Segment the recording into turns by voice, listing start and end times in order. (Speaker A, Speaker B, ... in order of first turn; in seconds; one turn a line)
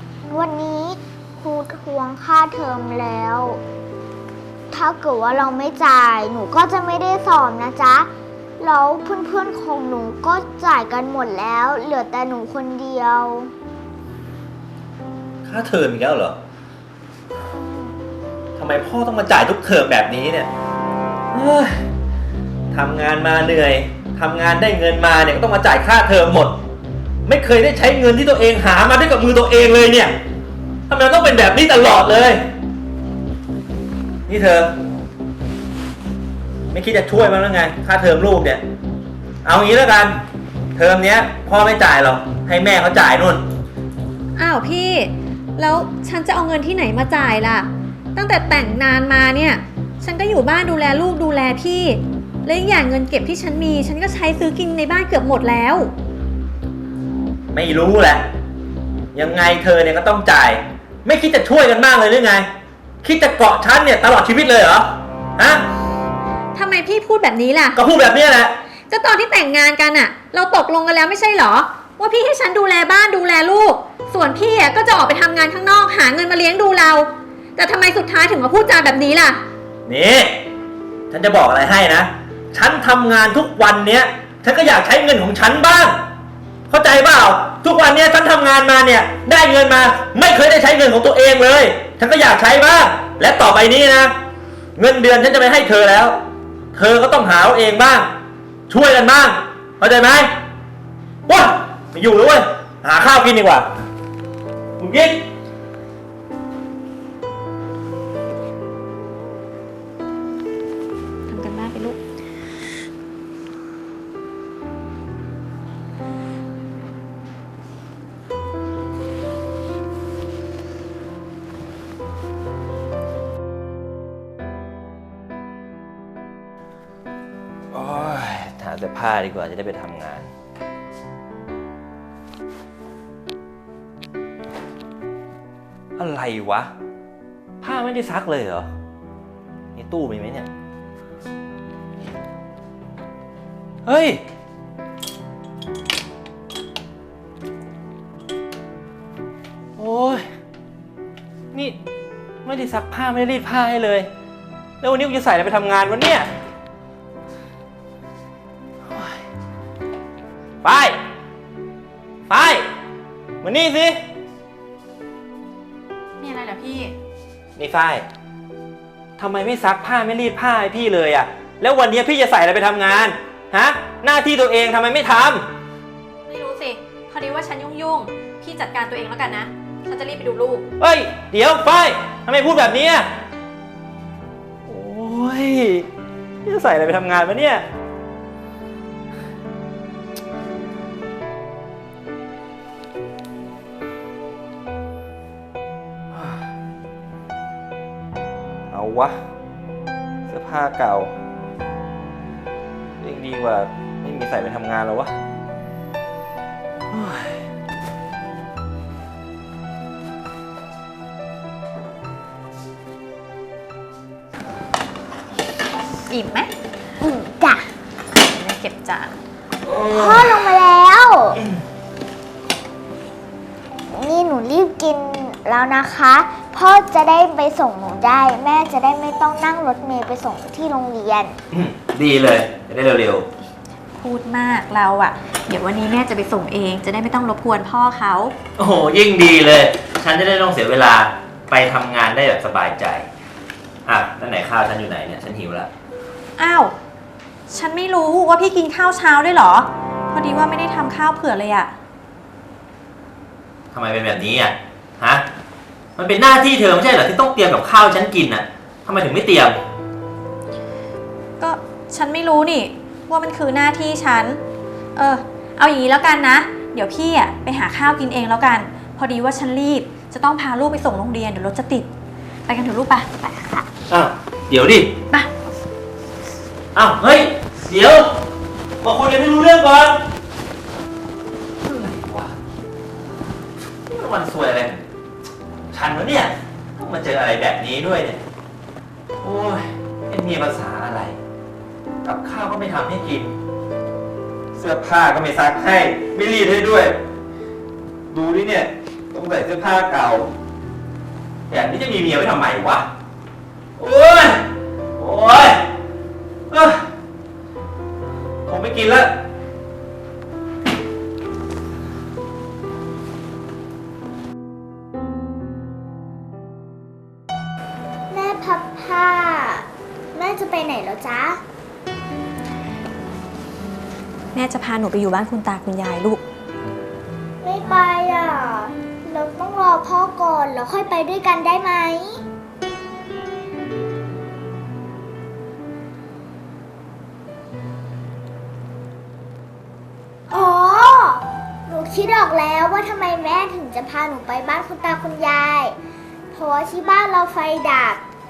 Speaker A: 0.3-3.6
Speaker A: 4.7-8.1
Speaker A: 8.6-13.5
Speaker B: 15.4-16.4
Speaker B: 18.6-20.5
Speaker B: 21.3-21.8
Speaker B: 22.7-26.6
Speaker B: 27.3-30.2
Speaker B: 30.9-32.4
Speaker B: 34.3-34.7
Speaker B: 36.7-38.6
Speaker B: 39.4-40.2
Speaker B: 40.8-43.4
Speaker C: 44.4-55.9
Speaker B: 57.5-58.2
Speaker B: 59.1-62.5
Speaker B: 63.0-64.9
Speaker B: 65.4-65.6
Speaker C: 66.5-67.8
Speaker B: 67.8-68.5
Speaker C: 68.9-79.4
Speaker B: 79.9-80.4
Speaker B: 81.1-86.0
Speaker B: 86.7-94.1
Speaker B: 94.8-96.2
Speaker B: 96.7-98.1
Speaker B: 98.7-100.3
Speaker B: 101.3-103.7
Speaker B: 104.8-105.2
Speaker C: 111.3-112.0
Speaker B: 127.7-130.3
Speaker B: 136.0-136.7
Speaker B: 137.6-138.7
Speaker B: 139.8-140.5
Speaker B: 143.8-144.2
Speaker B: 149.8-150.3
Speaker B: 151.5-151.8
Speaker B: 152.4-154.1
Speaker B: 154.8-156.3
Speaker B: 158.9-159.2
Speaker B: 160.6-161.0
Speaker B: 162.3-162.7
Speaker B: 163.4-164.0
Speaker C: 166.2-166.9
Speaker B: 167.6-168.1
Speaker B: 169.2-175.4
Speaker C: 176.3-180.7
Speaker B: 180.8-183.1
Speaker B: 184.7-185.9
Speaker B: 186.4-187.6
Speaker B: 198.7-199.2
Speaker B: 200.3-201.1
Speaker B: 203.0-205.1
Speaker B: 206.9-207.4
Speaker C: 216.1-216.5
Speaker A: 217.0-217.6
Speaker C: 218.1-219.2
Speaker B: 219.7-220.5
Speaker A: 219.8-221.4
Speaker A: 223.9-231.3
Speaker B: 231.5-233.3
Speaker C: 234.0-238.3
Speaker B: 238.6-243.1
Speaker B: 243.9-245.7
Speaker C: 246.4-246.7
Speaker C: 247.5-251.7
Speaker B: 253.7-255.2
Speaker B: 256.0-259.6
Speaker C: 261.4-264.4
Speaker C: 265.0-271.9
Speaker C: 272.5-273.7
Speaker B: 273.9-274.9
Speaker B: 276.8-278.1
Speaker B: 278.8-280.0
Speaker B: 281.6-282.3
Speaker B: 283.9-284.8
Speaker B: 285.7-288.2
Speaker B: 289.2-291.2
Speaker B: 292.0-293.3
Speaker B: 294.6-297.0
Speaker B: 298.1-300.3
Speaker B: 301.5-302.9
Speaker B: 303.8-304.4
Speaker B: 305.0-305.6
Speaker B: 306.5-306.8
Speaker B: 308.5-309.1
Speaker A: 318.1-321.4
Speaker C: 324.3-326.2
Speaker A: 327.4-332.2
Speaker A: 340.3-345.8
Speaker A: 346.3-348.0